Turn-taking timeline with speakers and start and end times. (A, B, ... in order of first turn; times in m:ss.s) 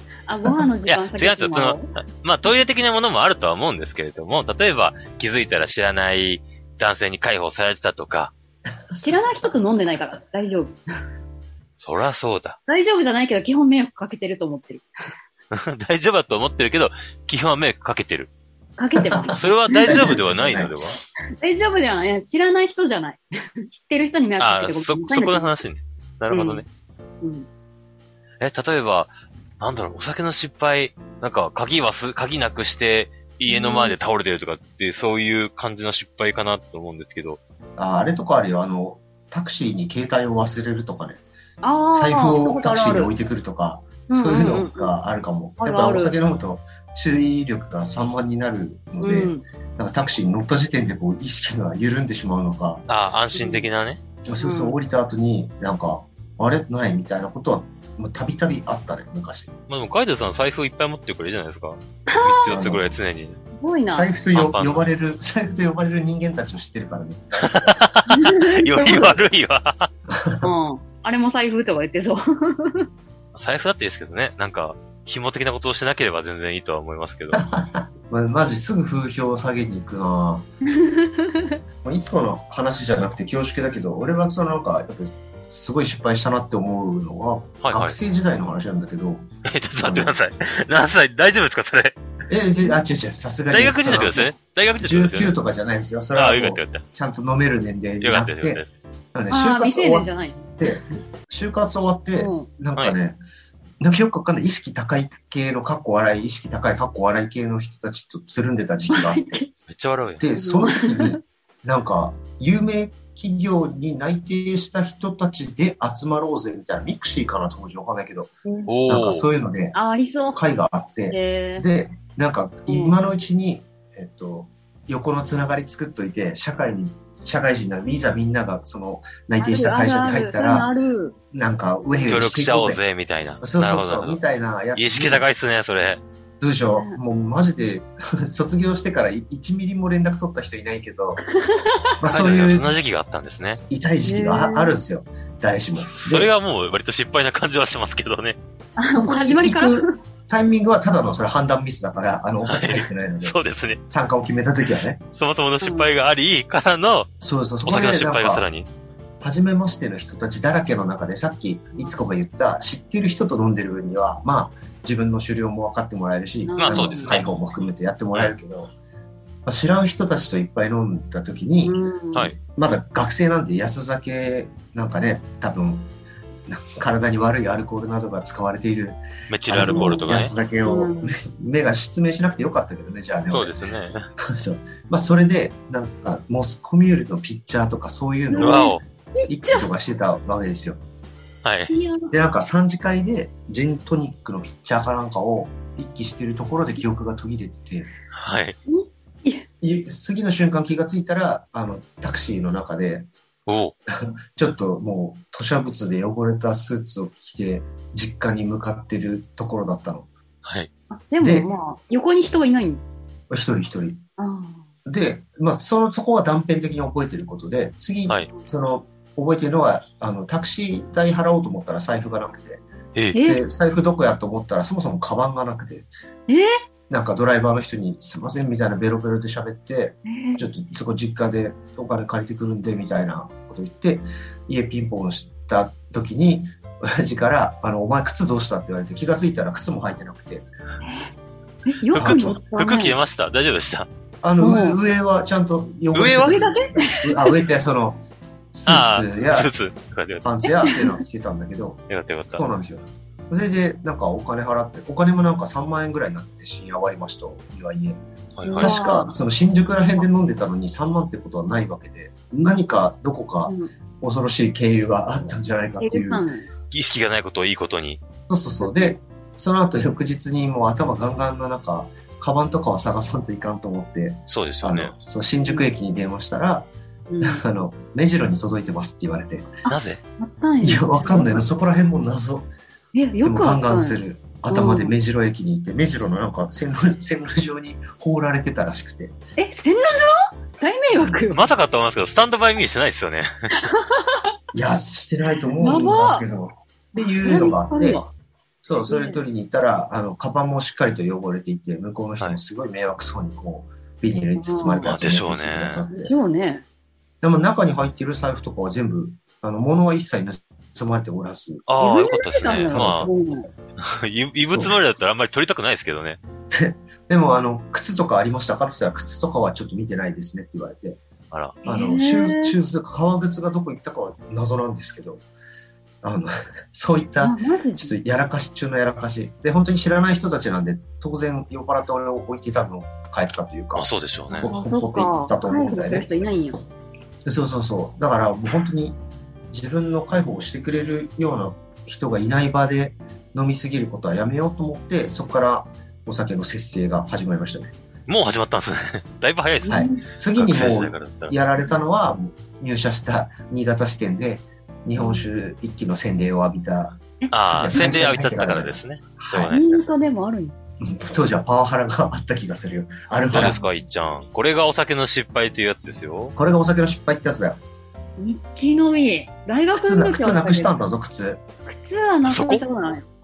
0:00.3-0:01.9 A
0:00.9-0:08.3 B
0:08.9-0:09.4 C
0:09.0-0:10.8 A
0:11.8-0:12.6 B
0:12.7-0:14.9 A
0:15.5-0:18.3 B
0:18.8-0:20.1 A
0:19.0-0:21.0 C
0:19.3-0:21.0 B
0:21.4-0:25.5 A
0:24.4-0:26.7 B
0:26.3-0:26.6 A
0:27.2-0:27.5 A
0:28.4-0:37.4 B
0:33.5-0:34.0 A
0:37.8-0:41.2 C
0:41.6-0:43.1 A
0:41.9-0:52.8 C
0:44.1-0:44.9 A
0:45.6-0:46.1 A
0:49.0-0:49.4 A
0:52.9-0:54.0 B
0:53.3-0:53.7 A
0:54.2-0:59.5 C
0:54.4-0:54.8 A
0:59.7-1:03.4 B
1:02.1-1:02.5 A
1:02.5-1:03.0 C
1:03.6-1:04.1 A
1:03.9-1:07.8 C
1:04.3-1:04.8 B
1:07.4-1:09.9 B
1:08.1-1:09.2 A
1:10.1-1:10.5 C
1:10.4-1:12.8 A
1:13.3-1:17.4 B
1:17.3-1:20.5 C
1:20.7-1:21.6 A
1:21.8-1:29.3 C
1:27.6-1:28.0 B
1:29.4-1:32.0 B
1:29.8-1:30.2 C
1:32.3-1:38.6 C
1:33.5-1:35.3 B
1:36.1-1:36.8 B
1:38.0-1:38.7 B
1:39.1-1:43.2 C
1:39.3-1:40.5 A
1:42.2-1:42.5 A
1:43.8-1:49.4 C
1:48.9-1:49.5 A
1:49.7-1:50.2 B
1:50.2-1:58.3 C
1:50.4-1:51.2 A
1:58.4-1:58.7 A
1:58.7-1:59.3 B
1:58.9-1:59.8 C
1:59.7-2:00.4 A
2:00.3-2:10.7 C
2:01.1-2:01.7 A
2:02.7-2:03.0 A
2:09.4-2:11.2 A
2:11.3-2:12.8 C
2:12.1-2:14.2 B
2:13.4-2:15.3 C
2:14.7-2:16.0 B
2:16.4-2:21.2 C
2:16.7-2:17.0 A
2:21.3-2:21.8 A
2:22.0-2:22.7 C
2:22.0-2:23.6 B
2:23.7-2:26.3 C
2:24.0-2:24.8 A
2:25.8-2:28.4 B
2:28.8-2:29.9 A
2:28.9-2:35.0 C
2:32.5-2:33.8 B
2:35.1-2:37.1 B
2:35.6-2:35.9 A
2:37.2-2:38.4 C
2:37.6-2:38.7 B
2:39.2-2:48.7 C
2:41.7-2:42.0 A
2:46.4-2:47.1 A
2:46.6-2:47.3 B
2:49.4-2:51.8 C
2:51.6-2:52.3 A
2:52.4-2:55.9 C
2:56.5-3:03.5 C
2:59.3-3:00.3 B
2:59.6-3:00.0 A
3:00.6-3:01.2 A
3:03.3-3:04.0 B
3:04.2-3:08.7 C
3:08.3-3:09.7 A
3:08.4-3:08.8 B
3:09.3-3:10.8 C
3:11.4-3:11.7 B
3:11.7-3:12.1 A
3:12.1-3:17.9 C
3:18.1-3:18.6 B
3:18.6-3:19.4 A
3:19.6-3:23.1 C
3:23.5-3:23.7 B
3:23.9-3:30.1 C
3:30.4-3:30.7 B
3:30.9-3:32.8 A
3:31.2-3:31.5 C
3:33.3-3:34.0 C
3:34.2-3:34.6 A
3:34.8-3:42.6 C
3:43.1-3:43.4 A
3:43.2-3:45.9 C
3:46.9-4:00.4 C
3:50.0-3:50.4 A
4:00.8-4:01.1 A
4:01.6-4:03.0 A
4:01.9-4:02.4 C
4:01.9-4:03.9 B
4:04.2-4:08.0 C
4:04.4-4:04.8 A
4:05.9-4:06.4 B
4:06.2-4:07.4 A
4:08.5-4:09.5 C
4:08.6-4:10.3 B
4:10.2-4:11.8 C
4:10.5-4:10.8 A
4:11.9-4:12.4 B
4:12.3-4:18.0 C
4:18.4-4:18.8 B
4:18.4-4:19.2 A
4:18.6-4:26.2 C
4:23.4-4:23.7 A
4:25.8-4:26.5 A
4:26.7-4:28.0 B
4:28.3-4:36.7 C
4:28.6-4:29.0 A
4:34.3-4:34.9 B
4:37.1-4:37.4 A
4:37.2-4:39.5 C
4:39.6-4:41.4 A
4:39.7-4:40.0 B
4:40.6-4:42.5 C
4:42.9-4:44.9 A
4:43.2-4:49.2 C
4:49.4-4:51.5 A
4:50.9-4:51.2 C
4:51.3-4:53.3 B
4:53.6-4:54.2 A
4:54.5-4:58.0 C
4:55.6-4:56.2 A
4:57.2-4:58.1 A
4:58.6-5:06.1 C
4:58.8-4:59.2 A
5:04.4-5:04.9 A
5:04.8-5:05.8 B
5:05.9-5:06.6 A
5:07.2-5:11.6 C
5:11.6-5:13.1 B
5:11.8-5:13.5 A
5:12.7-5:13.1 C
5:13.8-5:16.2 B
5:14.5-5:14.8 C
5:16.5-5:21.0 C
5:21.3-5:21.6 B
5:21.6-5:22.6 A
5:21.6-5:25.2 C
5:26.0-5:36.1 C
5:27.2-5:28.0 A
5:33.7-5:34.5 B
5:34.4-5:36.6 A
5:37.2-5:39.0 C
5:39.5-5:47.7 C
5:48.1-5:49.8 B
5:49.6-5:50.0 A
5:49.7-5:59.5 C
5:50.4-5:51.4 B
5:55.0-5:55.2 A
5:57.2-5:58.0 A
5:57.3-5:59.9 B
5:59.5-6:00.5 A
6:00.8-6:03.6 C
6:03.3-6:06.3 B
6:06.3-6:07.6 C
6:08.2-6:10.8 A
6:09.7-6:11.4 C
6:11.6-6:13.0 A
6:12.2-6:12.6 B